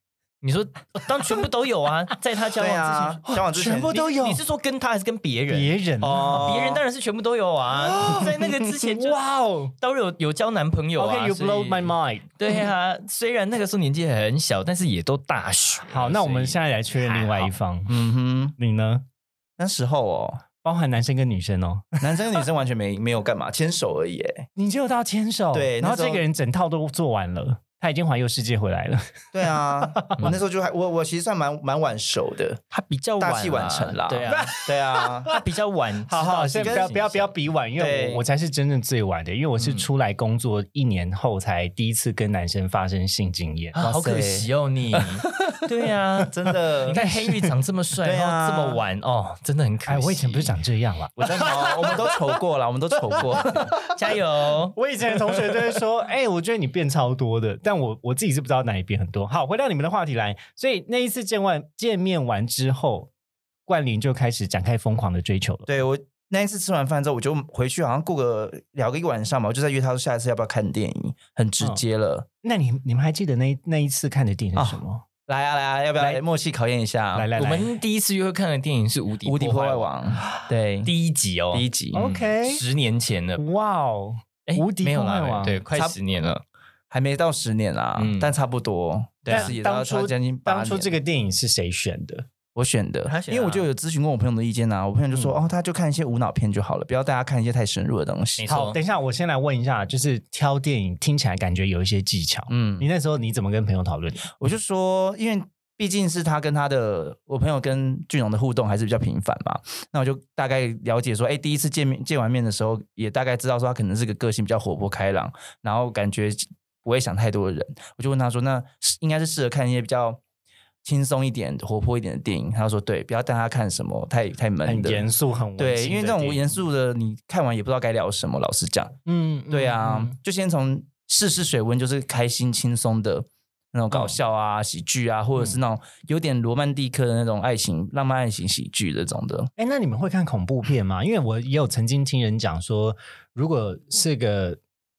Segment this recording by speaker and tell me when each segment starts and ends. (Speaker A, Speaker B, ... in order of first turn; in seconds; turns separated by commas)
Speaker A: 0.4-3.2, Speaker B: 2.6-4.1, Speaker C: 3.3-4.4, Speaker A: 3.9-9.2, Speaker C: 5.5-6.5, Speaker B: 6.0-6.8, Speaker C: 7.8-9.8, Speaker A: 9.8-17.5, Speaker C: 11.0-12.4, Speaker C: 15.9-18.0, Speaker B: 17.9-18.6, Speaker C: 18.6-19.0, Speaker B: 19.6-20.4, Speaker C: 20.6-22.2, Speaker B: 22.0-24.5, Speaker C: 24.6-30.3, Speaker B: 25.5-26.2, Speaker B: 29.3-32.6, Speaker A: 32.7-34.6, Speaker B: 33.2-35.3, Speaker C: 34.3-35.4, Speaker A: 35.3-37.3, Speaker C: 36.1-43.8, Speaker B: 36.6-36.9, Speaker B: 37.8-38.2, Speaker A: 39.6-39.9, Speaker A: 43.8-50.6, Speaker B: 43.8-45.6, Speaker B: 46.3-47.0, Speaker C: 46.9-47.5, Speaker B: 48.0-48.8, Speaker C: 49.9-52.2, Speaker B: 51.2-53.8, Speaker C: 53.1-53.9, Speaker A: 53.8-54.8, Speaker C: 54.7-63.1, Speaker C: 63.7-65.8, Speaker B: 65.7-72.3, Speaker C: 72.4-75.0, Speaker B: 74.6-77.3, Speaker C: 77.2-77.7, Speaker A: 77.4-79.9, Speaker B: 79.2-80.9, Speaker A: 80.8-83.4, Speaker B: 81.5-82.0, Speaker C: 81.9-82.6, Speaker C: 83.4-85.6, Speaker A: 84.5-86.4, Speaker B: 85.7-86.0, Speaker B: 86.9-91.0, Speaker A: 88.0-88.3, Speaker A: 89.3-89.5, Speaker C: 89.3-92.3, Speaker B: 92.5-98.5, Speaker A: 93.1-93.7, Speaker A: 98.4-98.8, Speaker C: 98.5-104.3, Speaker B: 102.5-102.9, Speaker B: 104.4-120.2, Speaker B: 120.8-125.0, Speaker C: 124.6-126.6, Speaker B: 125.6-129.0, Speaker C: 129.1-130.2, Speaker B: 129.5-139.5, Speaker C: 139.6-144.6